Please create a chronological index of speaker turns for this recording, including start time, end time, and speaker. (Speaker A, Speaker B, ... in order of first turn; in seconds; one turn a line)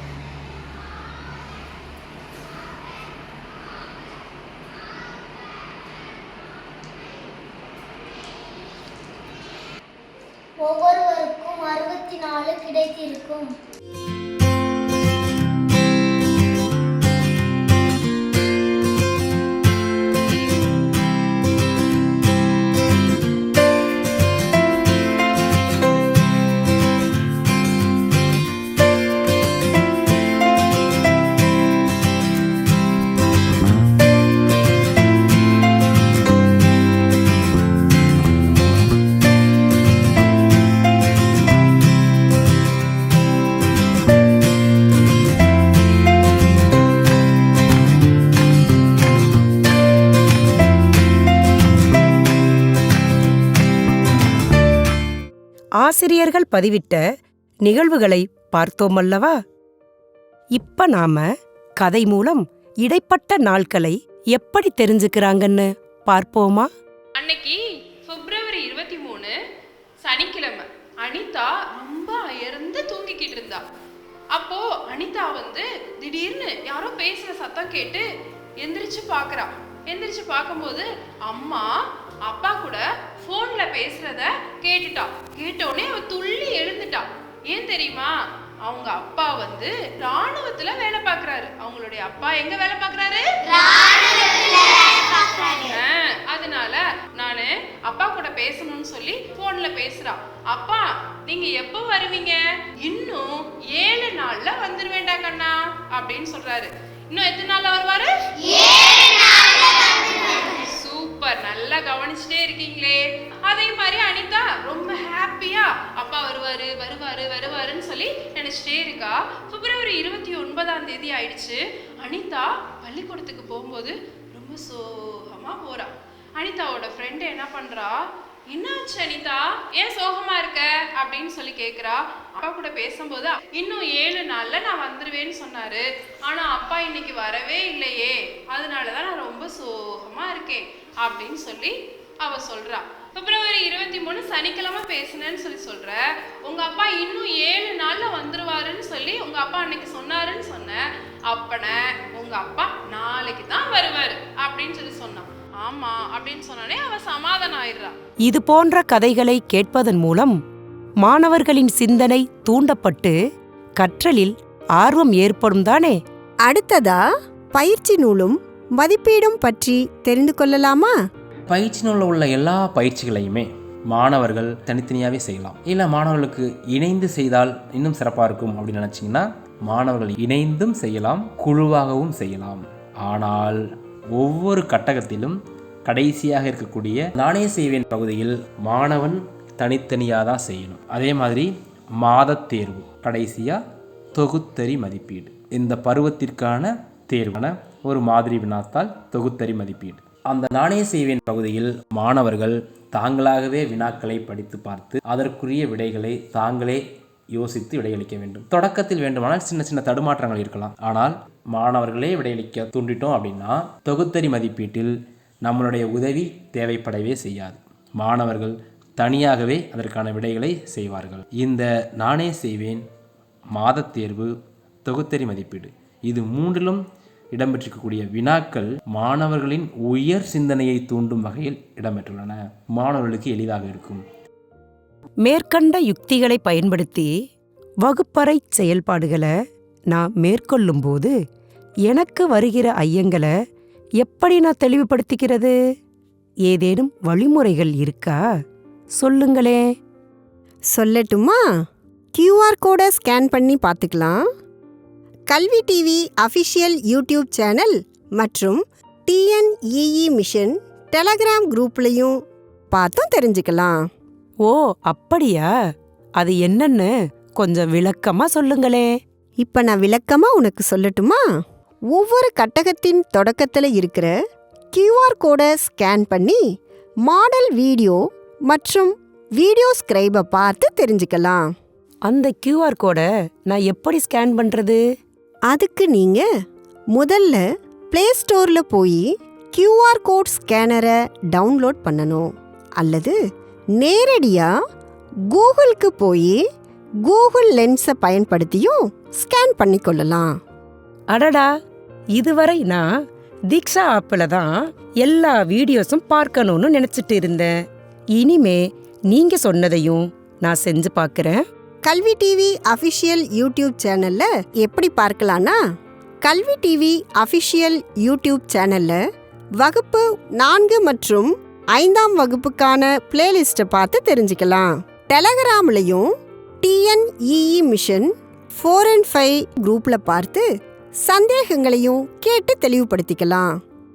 Speaker A: 10.6-13.5
Speaker B: 55.8-57.0
Speaker B: 57.6-59.3
Speaker B: 60.5-61.2
Speaker B: 61.8-66.7
Speaker C: 67.2-69.3
Speaker C: 70.0-73.6
Speaker C: 74.3-78.0
Speaker C: 78.6-81.7
Speaker C: 82.2-88.1
Speaker C: 88.6-93.2
Speaker C: 95.5-108.1
Speaker C: 110.4-128.0
Speaker C: 128.5-157.9
Speaker B: 158.3-160.4
Speaker B: 161.0-163.2
Speaker B: 163.8-166.0
Speaker D: 166.4-167.0
Speaker D: 167.5-170.9
Speaker E: 171.5-183.6
Speaker E: 184.2-191.5
Speaker E: 192.0-193.6
Speaker E: 194.2-206.8
Speaker E: 207.3-214.9
Speaker E: 215.4-222.8
Speaker E: 223.5-224.3
Speaker E: 224.8-226.8
Speaker E: 227.3-234.0
Speaker B: 235.2-237.1
Speaker B: 237.8-239.3
Speaker B: 239.9-241.1
Speaker B: 241.9-243.3
Speaker B: 244.0-245.5
Speaker B: 246.5-248.2
Speaker B: 249.0-249.6
Speaker D: 250.7-251.4
Speaker D: 252.1-254.2
Speaker D: 255.3-262.1
Speaker D: 262.7-263.7
Speaker B: 264.4-265.5
Speaker B: 266.2-268.9
Speaker D: 269.4-271.2
Speaker D: 271.9-274.1
Speaker D: 274.7-276.4
Speaker D: 277.0-278.0
Speaker D: 278.5-281.4
Speaker B: 282.1-284.8
Speaker D: 285.5-286.2
Speaker D: 286.9-293.1
Speaker D: 293.8-294.5
Speaker D: 295.3-296.4
Speaker D: 297.0-300.3
Speaker B: 301.1-301.5
Speaker B: 302.2-302.8
Speaker B: 303.5-307.5
Speaker B: 308.2-311.4
Speaker D: 311.8-315.6
Speaker D: 316.2-319.0
Speaker D: 319.6-326.1
Speaker D: 326.6-330.4
Speaker D: 331.1-333.5